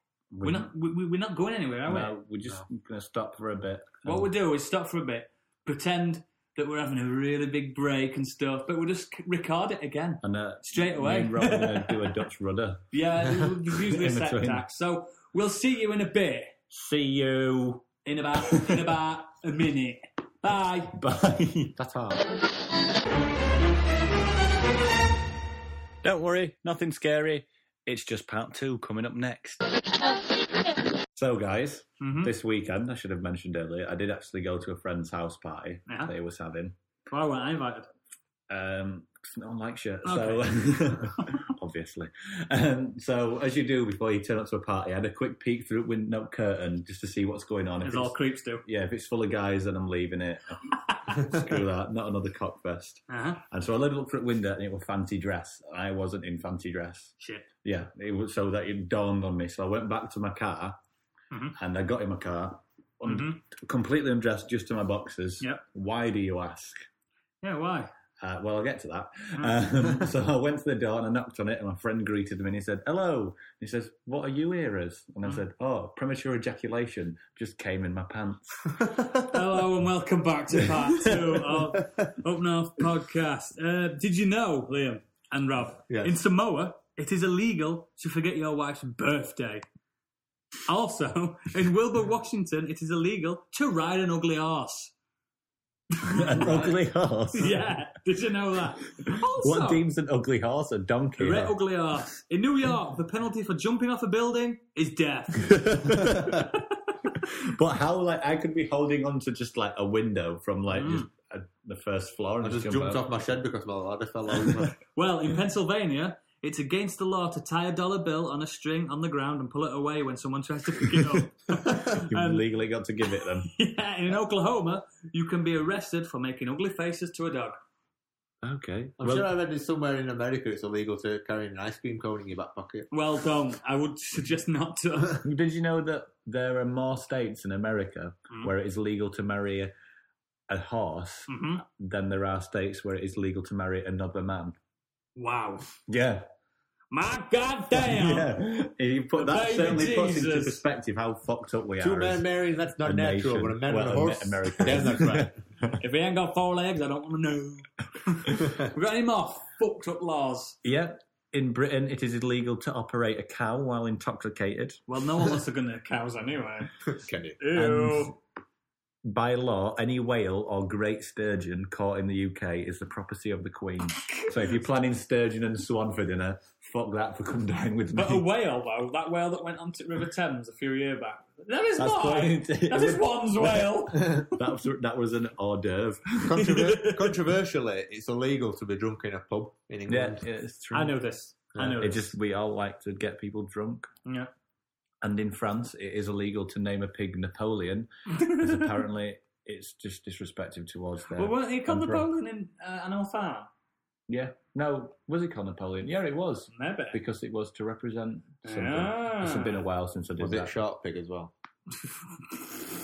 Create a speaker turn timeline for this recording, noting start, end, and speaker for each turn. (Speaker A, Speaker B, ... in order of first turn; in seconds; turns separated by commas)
Speaker A: 0.3-0.7, Speaker B: 0.4-2.1, Speaker A: 1.9-4.3, Speaker B: 4.0-12.2, Speaker A: 10.2-12.9, Speaker B: 12.9-16.6, Speaker A: 13.7-14.6, Speaker A: 16.7-17.9, Speaker B: 18.0-21.0, Speaker A: 18.5-18.9, Speaker A: 20.9-21.8, Speaker C: 21.8-22.2, Speaker A: 26.0-29.7, Speaker A: 31.1-36.8, Speaker B: 32.0-32.3, Speaker B: 35.9-36.1, Speaker B: 37.1-37.9, Speaker A: 38.5-57.1, Speaker B: 40.0-41.4, Speaker B: 47.8-48.6, Speaker B: 50.9-51.2, Speaker B: 53.1-53.4, Speaker B: 57.2-57.5, Speaker A: 57.6-60.8, Speaker B: 61.3-61.6, Speaker A: 61.6-66.8, Speaker B: 63.0-63.4, Speaker B: 67.4-67.9, Speaker A: 68.2-78.8, Speaker C: 78.8-79.1, Speaker B: 79.1-89.6, Speaker C: 85.9-86.2, Speaker B: 90.7-94.9, Speaker B: 96.0-96.8, Speaker A: 96.1-97.7, Speaker B: 97.3-99.8, Speaker A: 99.2-101.5, Speaker B: 101.2-106.8, Speaker A: 105.4-106.5, Speaker A: 107.2-113.0, Speaker B: 110.7-111.1, Speaker C: 112.4-114.8, Speaker B: 114.9-122.5, Speaker A: 121.7-123.5, Speaker B: 123.2-127.6, Speaker A: 128.4-129.3, Speaker C: 129.0-132.9, Speaker B: 132.9-135.2, Speaker A: 135.2-139.7, Speaker A: 140.5-144.6, Speaker B: 141.3-141.6, Speaker B: 145.2-145.7, Speaker A: 145.9-146.2, Speaker B: 146.9-148.4, Speaker A: 147.8-152.2, Speaker B: 149.2-150.6, Speaker C: 151.8-155.4, Speaker A: 152.8-155.7, Speaker B: 155.8-160.6, Speaker A: 160.6-164.8, Speaker B: 164.9-166.7, Speaker C: 166.9-167.4, Speaker B: 167.4-168.2, Speaker A: 167.5-168.2, Speaker A: 169.1-178.2, Speaker B: 177.9-184.4, Speaker A: 181.8-186.6, Speaker C: 186.2-190.2, Speaker B: 186.4-187.1, Speaker A: 189.9-191.0, Speaker B: 190.7-192.1, Speaker A: 191.6-193.9, Speaker A: 195.0-202.1, Speaker B: 198.1-198.7, Speaker B: 201.2-203.5, Speaker A: 204.1-210.5, Speaker B: 206.5-207.0, Speaker B: 208.4-209.6, Speaker C: 210.2-211.3